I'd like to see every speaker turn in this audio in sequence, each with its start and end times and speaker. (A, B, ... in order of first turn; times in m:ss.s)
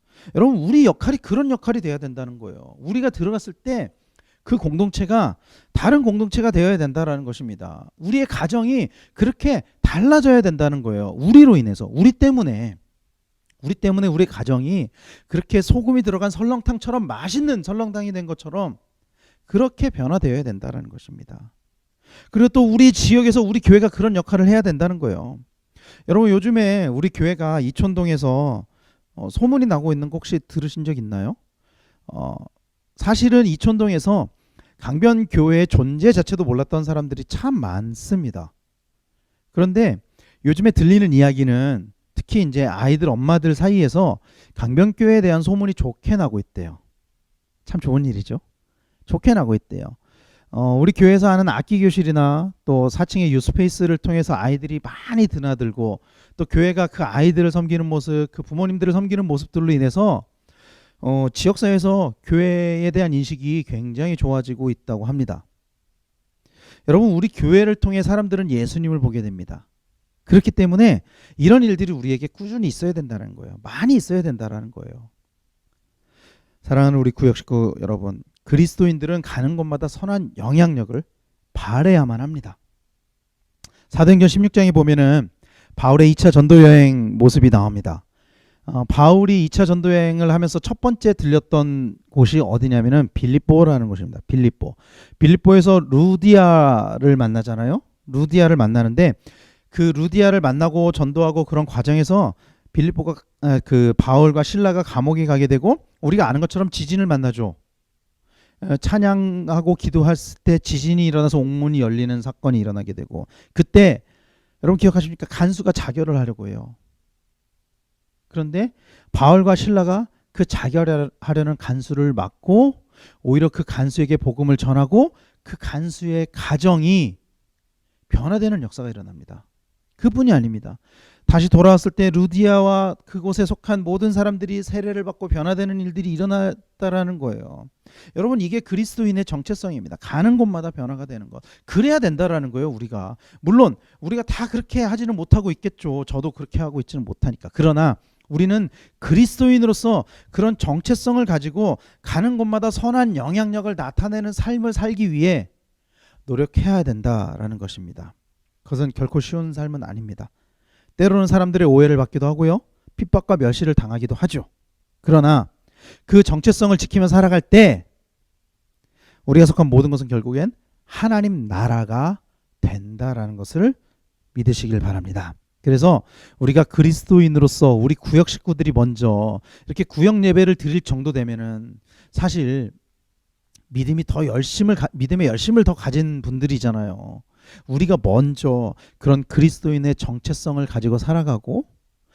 0:00.3-0:03.9 A
0:04.4-0:12.8 A
0:13.6-0:18.8 A
0:19.5-0:21.5 A
0:22.3-0:25.4 A
0:26.1-0:31.4 A
0:32.1-0:38.5 A
0:39.5-0:46.8 A
0:47.6-0:48.4 A
0:49.1-0:50.0 A
0:50.5-1:00.2 A
1:01.0-1:05.4 A
1:06.9-1:09.6 A
1:10.3-1:15.1 A
1:16.6-1:22.6 A
1:23.9-1:28.0 A
1:28.7-1:39.2 A
1:39.7-1:47.6 A
1:48.6-1:54.0 A
1:54.6-1:56.7 A
1:58.3-2:07.2 A
2:08.1-2:09.4 A
2:10.0-2:35.5 A
2:36.2-2:38.1 A
2:38.6-2:40.3 A
2:41.0-2:44.5 A
2:45.0-2:45.5 A
2:46.1-2:47.8 A
2:49.2-2:53.8 A
2:54.3-3:02.7 A
3:03.7-3:11.7 A